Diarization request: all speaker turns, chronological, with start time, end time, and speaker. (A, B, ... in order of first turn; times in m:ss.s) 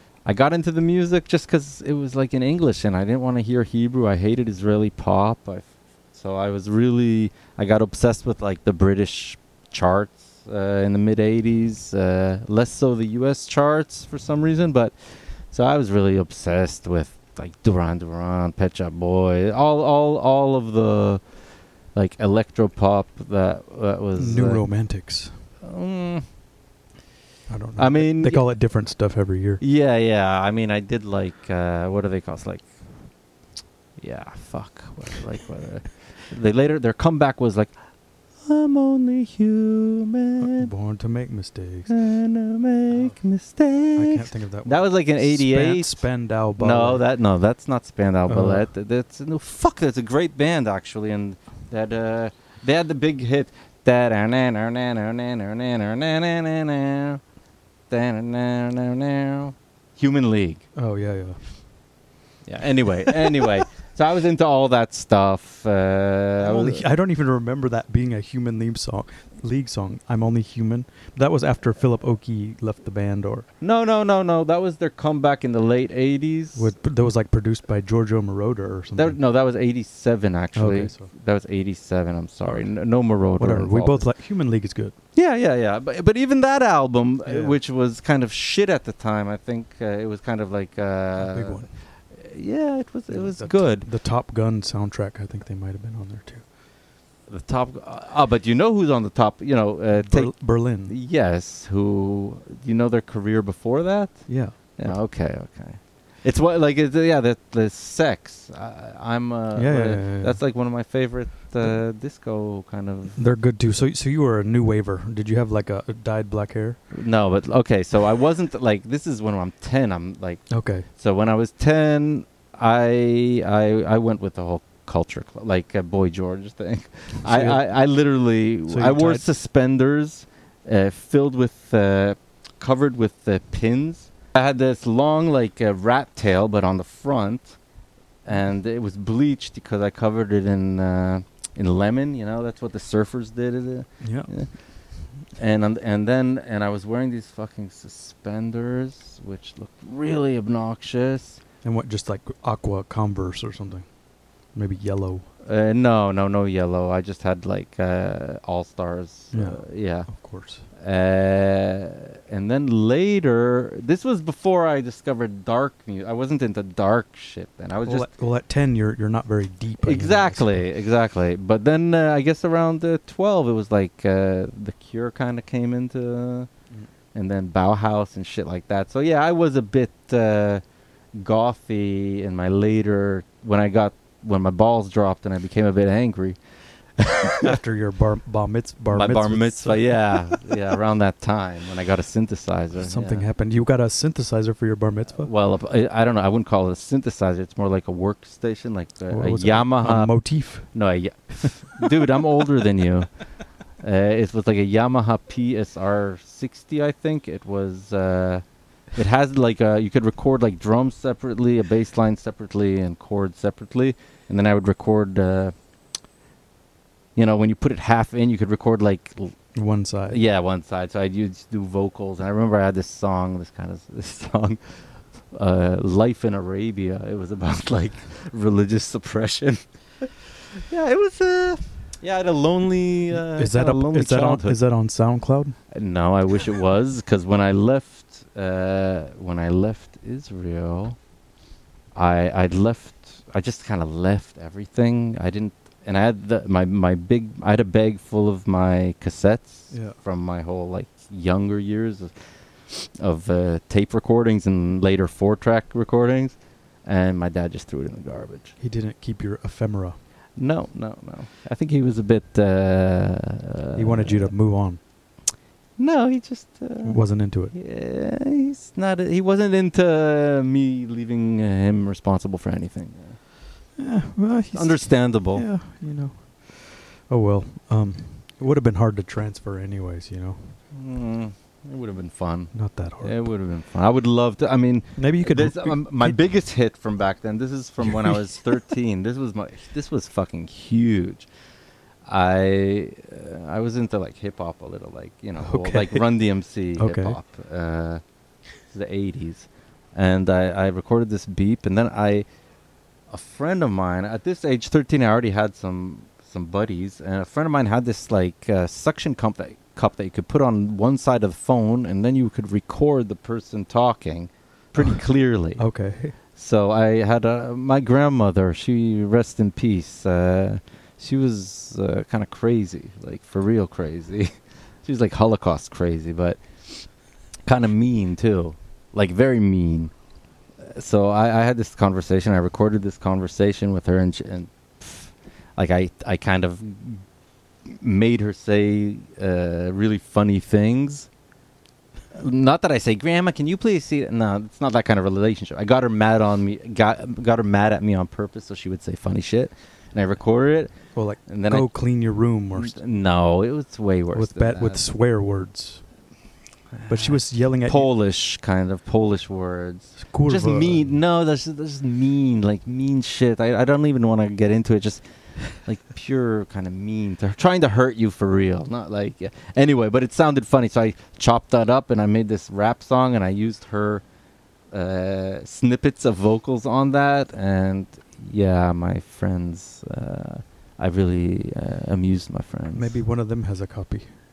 0:00.2-0:21.2 A
0:21.9-0:24.6 A
0:24.2-0:25.4 B
0:25.6-0:26.3 A
0:27.5-0:29.6 B
0:27.8-0:28.4 A
0:29.6-0:32.7 A
0:34.0-0:37.7 A
0:38.4-0:40.7 A
0:40.4-0:41.9 B
0:41.9-0:46.0 A
0:44.0-0:47.0 B
0:46.6-0:57.2 A
0:48.3-0:48.7 B
0:57.9-1:00.6 A
1:00.8-1:01.4 B
1:02.5-1:06.9 A
1:06.4-1:13.5 B
1:13.6-1:16.7 A
1:16.6-1:19.2 B
1:19.0-1:24.1 A
1:20.6-1:21.1 B
1:23.4-1:25.0 B
1:25.2-1:33.9 A
1:27.2-1:27.6 B
1:31.2-1:31.7 B
1:33.1-1:36.4 B
1:37.3-1:53.2 A
1:40.0-1:40.9 B
1:44.3-1:45.0 B
1:49.6-1:50.4 B
1:53.2-1:56.8 B
1:56.9-2:17.6 A
2:00.5-2:00.9 B
2:07.3-2:07.6 B
2:08.7-2:09.2 B
2:18.2-2:24.6 A
2:24.0-2:24.3 B
2:25.3-2:31.4 A
2:31.6-2:33.9 B
2:34.5-2:35.3 B
2:35.4-2:40.1 A
2:39.3-2:40.7 B
2:40.8-2:48.1 A
2:47.9-2:50.6 B
2:49.8-2:56.5 A
2:57.1-3:00.6 A
3:01.1-3:06.4 A
3:07.0-3:07.6 A
3:07.4-3:10.4 B
3:08.9-3:13.2 A
3:12.8-3:15.3 B
3:15.2-3:23.1 A
3:19.1-3:20.7 B
3:21.4-3:21.8 B
3:23.8-3:28.4 A
3:29.0-3:35.5 A
3:37.2-3:39.3 A
3:39.6-3:40.2 B
3:40.1-3:54.6 A
3:53.1-3:55.6 B
3:55.7-4:01.0 A
4:02.0-4:12.1 A
4:09.7-4:10.0 B
4:12.7-4:18.6 A
4:18.6-4:20.0 B
4:20.4-4:24.3 A
4:23.8-4:24.8 B
4:25.8-4:33.2 A
4:26.8-4:27.5 B
4:33.8-4:40.6 B
4:34.5-4:35.4 A
4:40.7-4:51.3 A
4:42.5-4:43.2 B
4:45.0-4:46.2 B
4:47.9-4:48.2 B
4:52.1-4:58.0 A
4:55.4-4:56.1 B
4:56.8-4:57.2 B
4:58.7-5:02.2 A
5:03.1-5:15.6 A
5:15.6-5:16.2 B
5:16.3-5:24.3 A
5:24.8-5:26.8 A
5:27.5-5:29.9 A
5:30.6-5:37.0 A
5:37.6-5:41.1 A
5:42.1-5:50.7 A
5:50.9-5:52.8 B
5:51.3-5:51.7 A
5:52.6-5:54.8 A
5:54.1-5:55.8 B
5:56.7-6:14.0 A
5:56.9-5:57.9 B
6:00.0-6:00.9 B
6:14.7-6:23.0 A
6:22.7-6:24.1 B